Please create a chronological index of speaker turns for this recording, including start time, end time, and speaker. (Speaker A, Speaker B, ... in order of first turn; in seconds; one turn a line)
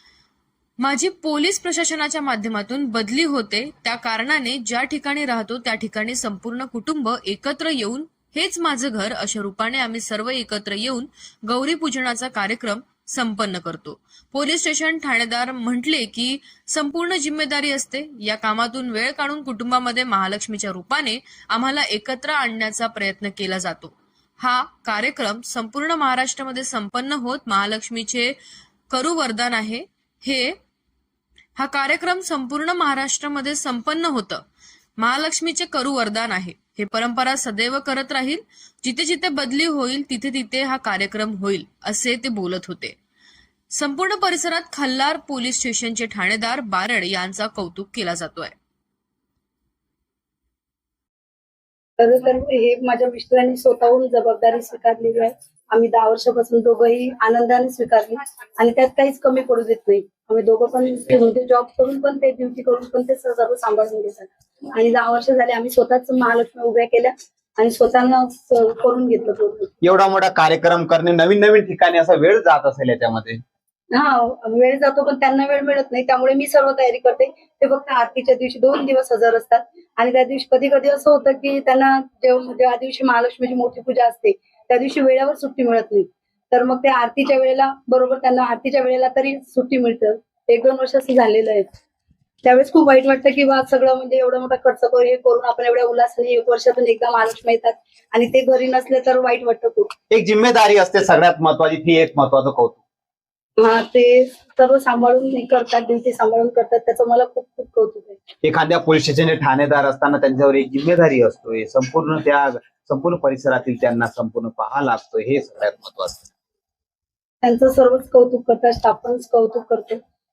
Speaker A: 0.8-28.4
Speaker A: 28.9-30.6
Speaker A: 31.6-34.4
Speaker A: 35.0-43.0
Speaker A: 43.7-48.5
Speaker B: 52.0-70.0
Speaker C: 69.8-73.4
Speaker B: 73.9-91.7
Speaker B: 92.4-99.9
Speaker C: 100.1-102.8
Speaker B: 103.6-108.2
Speaker C: 108.4-116.3
Speaker B: 117.4-120.0